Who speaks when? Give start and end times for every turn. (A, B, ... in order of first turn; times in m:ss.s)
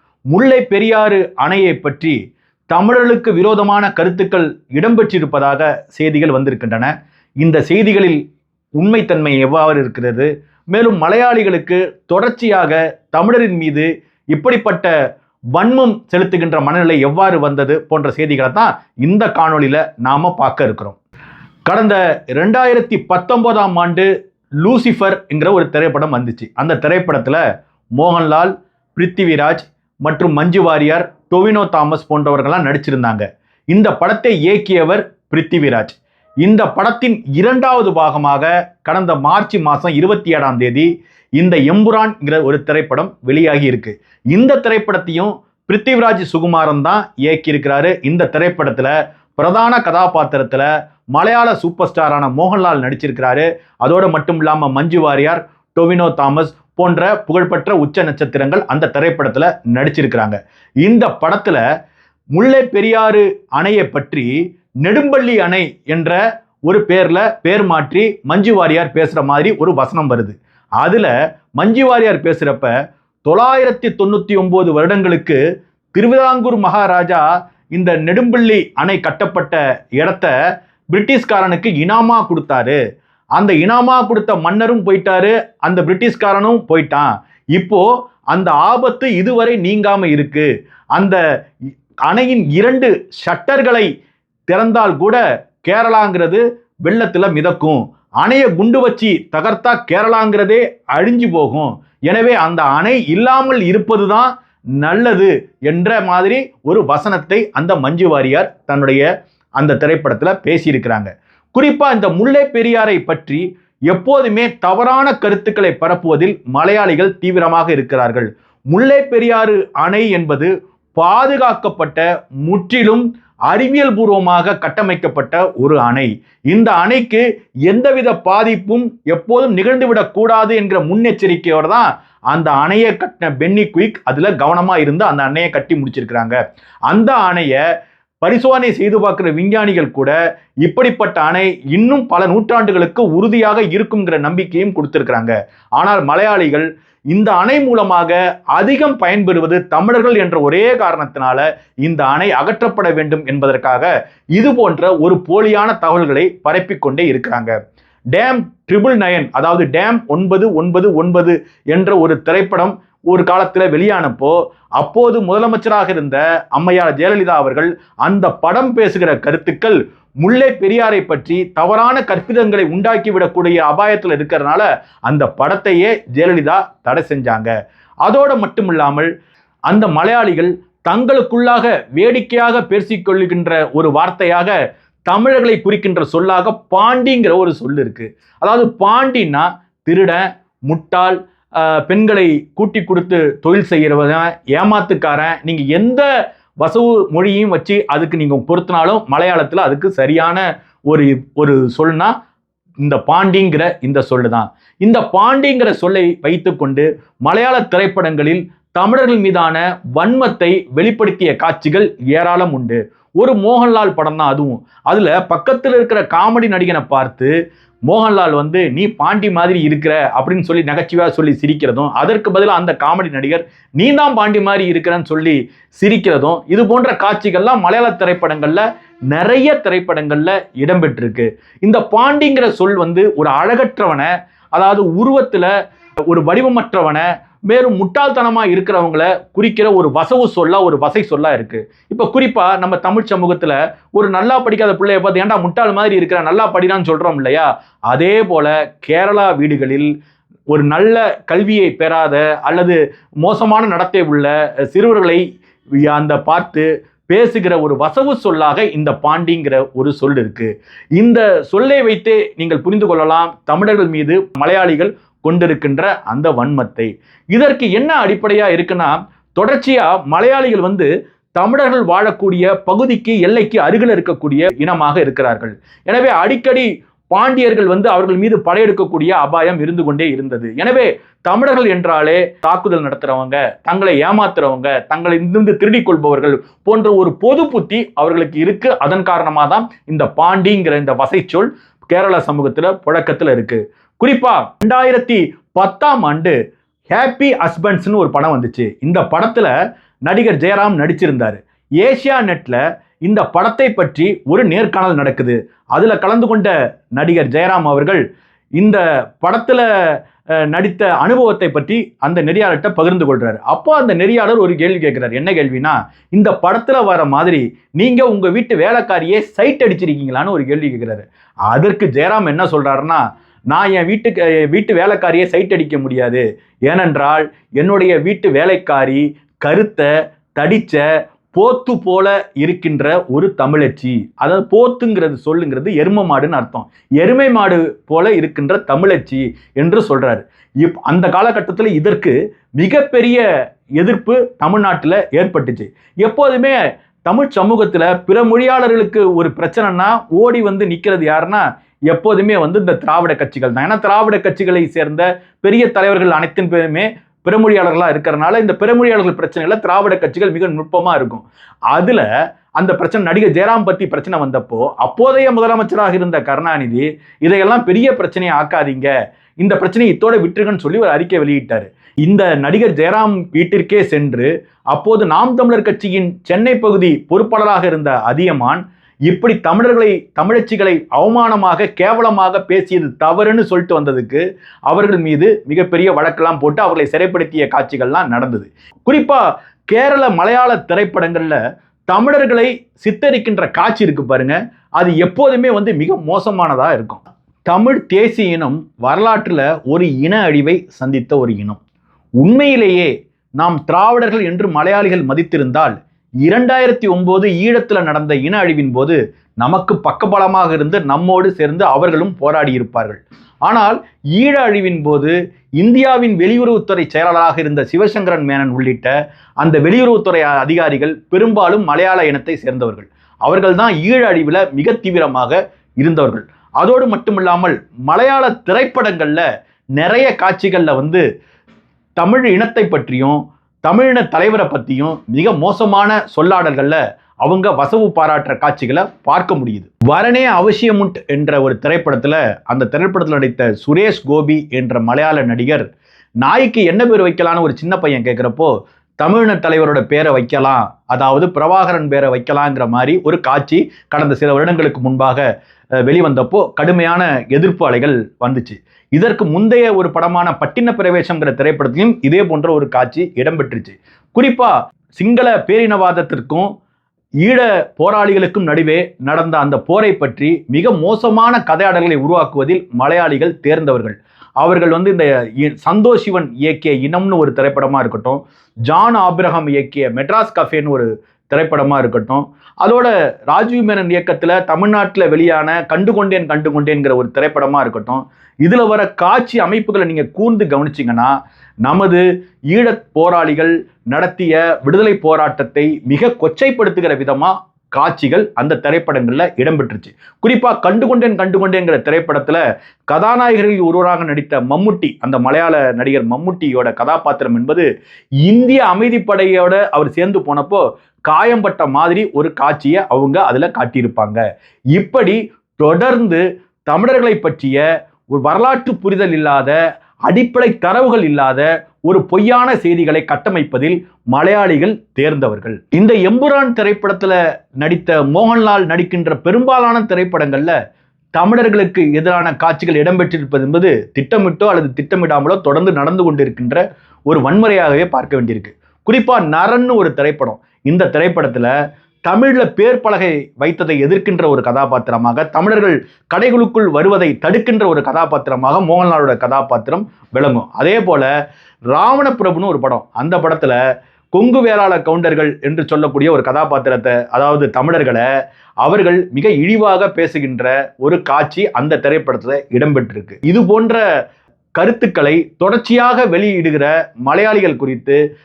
0:00.3-0:02.2 A
0:02.7-0:08.2 A
0:08.8-0:14.9 A
0:15.5-0:21.0 A
0:21.6-0:24.1 A
0:24.6-0:27.4 A
0:28.0-1:01.6 A
1:02.3-1:12.7 A
1:13.2-1:15.4 A
1:15.9-1:20.3 A
1:20.9-1:22.8 A
1:23.4-1:31.2 A
1:32.1-1:33.9 A
1:34.5-1:49.0 A
1:49.6-2:17.6 A
2:18.2-2:37.6 A
2:38.1-2:57.5 A
2:58.0-2:59.1 A
2:59.7-3:04.6 A
3:05.1-3:16.1 A
3:16.6-3:22.1 A
3:22.8-3:37.3 A
3:37.9-3:55.5 A
3:56.1-4:09.9 A
4:10.5-4:15.2 A
4:15.8-4:56.3 A
4:56.9-4:59.5 A
5:00.0-5:08.0 A
5:08.6-5:09.6 A
5:10.5-5:43.2 A
5:43.8-6:41.6 A
6:42.2-6:45.7 A
6:46.2-7:09.2 A
7:09.8-7:11.0 A
7:12.0-7:25.6 A
7:26.2-7:35.2 A
7:35.8-7:46.5 A
7:47.2-8:11.1 A
8:11.6-8:27.7 A
8:28.2-8:34.2 A
8:34.7-8:50.6 A
8:51.2-9:01.5 A
9:02.1-9:11.1 A
9:11.7-9:13.6 A
9:14.1-9:18.0 A
9:18.6-9:23.8 A
9:24.6-9:28.0 A